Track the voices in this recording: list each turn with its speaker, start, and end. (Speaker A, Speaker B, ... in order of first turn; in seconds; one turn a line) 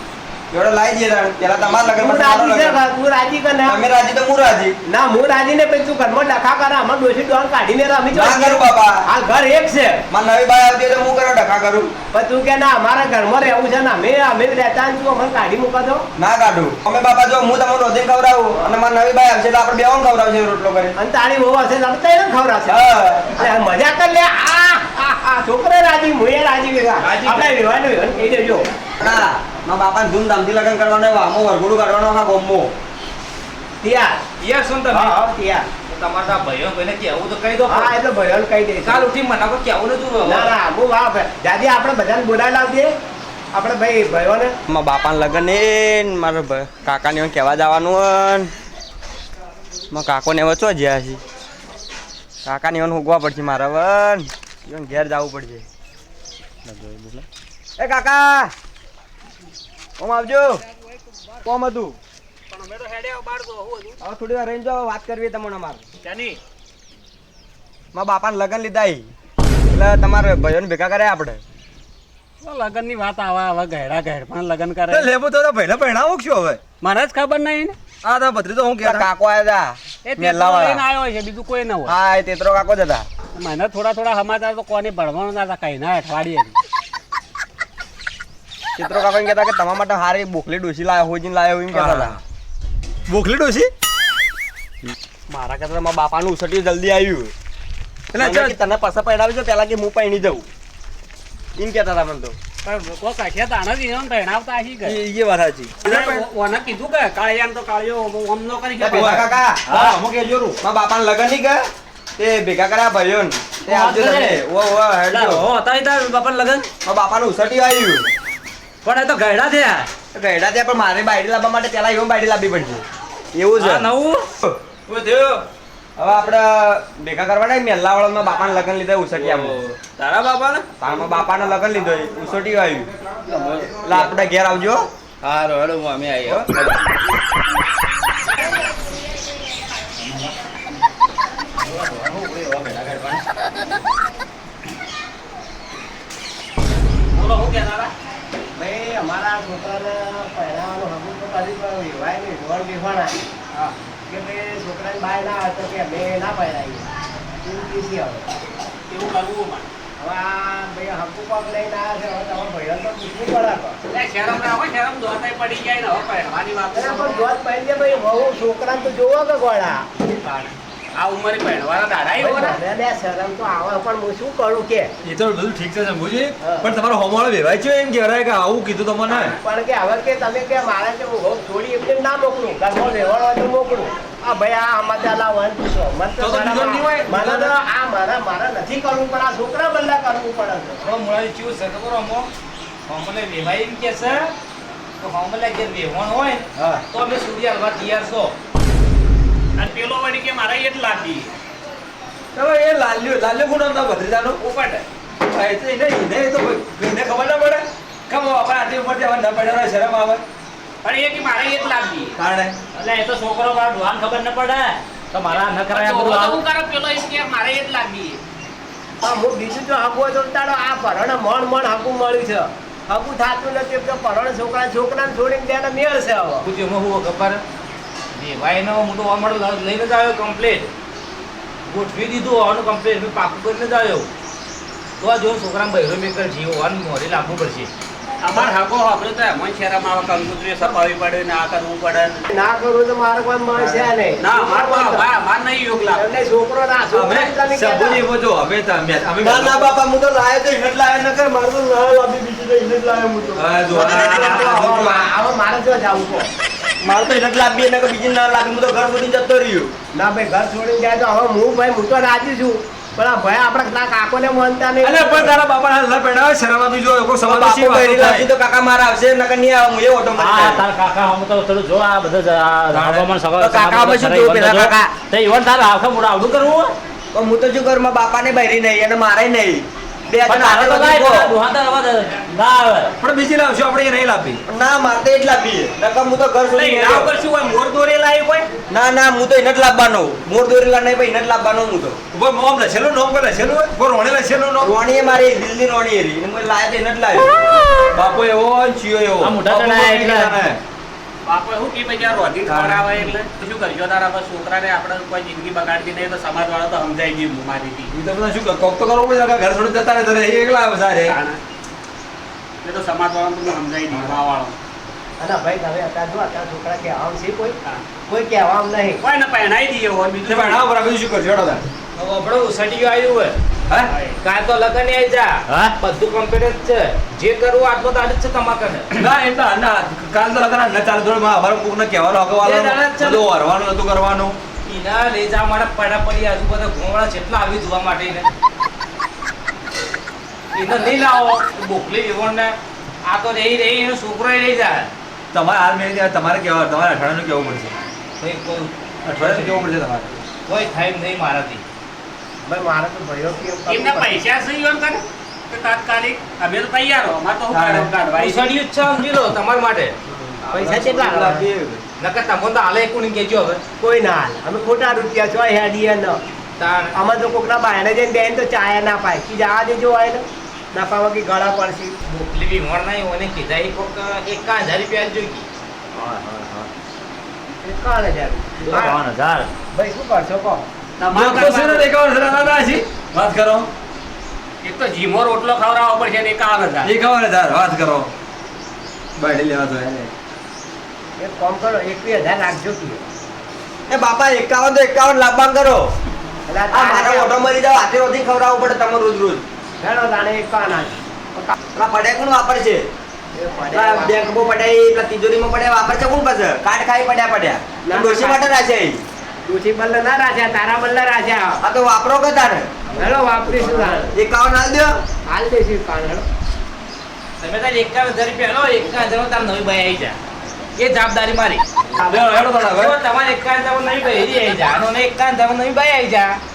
Speaker A: 0.5-2.8
Speaker B: 2.0-3.8
Speaker A: 3.6-4.8
Speaker B: 4.9-10.0
Speaker A: 8.1-9.0
Speaker A: 10.1-11.9
Speaker B: 12.1-16.1
Speaker A: 16.2-21.0
Speaker B: 18.6-18.8
Speaker B: 21.0-22.8
Speaker A: 22.7-23.4
Speaker B: 23.3-28.7
Speaker C: 27.0-27.6
Speaker A: 29.0-32.7
Speaker B: 33.8-34.2
Speaker C: 34.4-35.1
Speaker B: 34.9-35.7
Speaker C: 35.9-37.9
Speaker B: 37.7-39.1
Speaker C: 38.8-40.5
Speaker B: 40.2-42.9
Speaker B: 43.5-44.5
Speaker A: 44.7-48.5
Speaker A: 49.9-51.2
Speaker A: 52.5-55.7
Speaker D: 56.7-57.2
Speaker A: 57.8-58.5
Speaker A: 60.0-60.6
Speaker A: 61.4-62.0
Speaker E: 62.5-64.0
Speaker A: 64.0-65.8
Speaker E: 66.0-66.4
Speaker A: 67.9-69.1
Speaker A: 69.7-71.4
Speaker E: 72.4-75.1
Speaker D: 74.9-76.6
Speaker E: 76.8-77.8
Speaker D: 78.0-79.1
Speaker A: 78.8-80.8
Speaker E: 80.0-82.0
Speaker A: 81.9-83.1
Speaker E: 83.3-86.6
Speaker A: 88.8-92.2
Speaker D: 91.7-92.2
Speaker D: 93.1-93.7
Speaker A: 95.3-97.3
Speaker D: 98.1-98.6
Speaker A: 98.2-100.5
Speaker A: 101.6-102.4
Speaker E: 102.6-105.0
Speaker D: 104.8-106.2
Speaker E: 105.8-109.2
Speaker A: 108.8-109.6
Speaker D: 108.9-110.6
Speaker C: 109.7-110.0
Speaker A: 110.6-111.6
Speaker A: 112.2-115.5
Speaker C: 113.7-114.4
Speaker C: 115.1-116.7
Speaker A: 116.8-118.0
Speaker C: 118.8-119.9
Speaker A: 120.1-123.9
Speaker C: 123.6-124.3
Speaker D: 124.9-125.4
Speaker A: 126.0-129.6
Speaker D: 129.2-130.6
Speaker A: 130.8-132.9
Speaker E: 133.3-133.7
Speaker A: 133.8-134.8
Speaker D: 135.3-136.5
Speaker E: 147.1-147.9
Speaker B: 148.6-153.2
Speaker B: 154.1-156.8
Speaker B: 157.4-158.3
Speaker E: 158.9-159.7
Speaker B: 160.0-163.8
Speaker E: 163.9-167.3
Speaker B: 166.7-169.8
Speaker E: 170.9-172.6
Speaker B: 172.2-174.9
Speaker D: 175.0-179.4
Speaker B: 176.4-176.7
Speaker B: 179.1-190.8
Speaker D: 186.2-187.5
Speaker C: 190.8-192.3
Speaker C: 192.9-194.3
Speaker C: 195.0-198.3
Speaker D: 196.6-196.8
Speaker E: 199.6-201.3
Speaker D: 202.3-204.4
Speaker C: 204.4-204.8
Speaker D: 205.2-210.2
Speaker C: 210.8-212.2
Speaker D: 212.2-212.6
Speaker C: 212.7-216.4
Speaker E: 215.7-218.2
Speaker B: 219.0-226.4
Speaker C: 226.4-227.4
Speaker C: 228.2-230.7
Speaker C: 231.7-234.1
Speaker C: 235.0-237.7
Speaker E: 238.2-242.2
Speaker B: 242.3-245.1
Speaker E: 244.2-246.2
Speaker B: 245.9-248.1
Speaker D: 246.9-249.7
Speaker A: 249.2-253.4
Speaker D: 253.3-255.1
Speaker B: 253.7-256.3
Speaker E: 253.8-254.5
Speaker A: 256.8-259.7
Speaker B: 259.9-265.3
Speaker D: 264.8-268.3
Speaker A: 267.2-270.6
Speaker C: 270.2-276.7
Speaker D: 272.7-273.1
Speaker A: 273.4-274.9
Speaker A: 277.1-281.4
Speaker C: 280.3-282.9
Speaker D: 283.0-284.4
Speaker A: 284.5-287.1
Speaker E: 286.5-288.5
Speaker A: 288.7-292.0
Speaker D: 292.1-294.7
Speaker A: 294.6-297.3
Speaker D: 297.9-300.6
Speaker C: 299.2-300.4
Speaker E: 301.2-307.9
Speaker C: 302.5-303.2
Speaker D: 307.9-311.2
Speaker E: 311.1-311.4
Speaker E: 312.6-314.6
Speaker B: 315.2-319.0
Speaker E: 319.0-320.7
Speaker D: 320.3-321.6
Speaker C: 322.0-323.4
Speaker E: 323.9-324.2
Speaker C: 324.2-329.0
Speaker D: 328.9-334.4
Speaker C: 332.4-333.2
Speaker C: 334.6-338.3
Speaker C: 340.5-344.9
Speaker D: 345.3-347.8
Speaker C: 348.2-349.7
Speaker D: 349.1-350.1
Speaker C: 350.5-351.6
Speaker B: 352.4-354.2
Speaker E: 353.7-358.6
Speaker D: 357.5-357.9
Speaker C: 358.2-359.9
Speaker B: 360.1-361.5
Speaker D: 360.5-361.8
Speaker C: 362.0-363.6
Speaker B: 363.8-366.2
Speaker C: 366.6-366.9
Speaker B: 366.9-371.9
Speaker C: 372.1-375.5
Speaker C: 376.0-376.7
Speaker B: 377.5-379.0
Speaker C: 378.6-379.5
Speaker B: 379.7-380.6
Speaker E: 381.0-381.9
Speaker D: 381.1-383.7
Speaker E: 384.6-386.9
Speaker D: 386.8-388.1
Speaker D: 389.2-390.1
Speaker B: 391.2-393.0
Speaker A: 393.9-395.9
Speaker B: 396.5-397.4
Speaker A: 396.7-399.4
Speaker B: 399.8-401.5
Speaker A: 401.7-402.9
Speaker B: 403.3-404.2
Speaker A: 403.7-409.0
Speaker B: 407.9-408.4
Speaker B: 409.5-411.6
Speaker A: 411.6-412.7
Speaker B: 412.9-414.1
Speaker A: 414.1-414.9
Speaker B: 415.3-416.3
Speaker C: 417.4-420.2
Speaker C: 420.8-421.6
Speaker D: 422.0-422.9
Speaker C: 422.7-426.4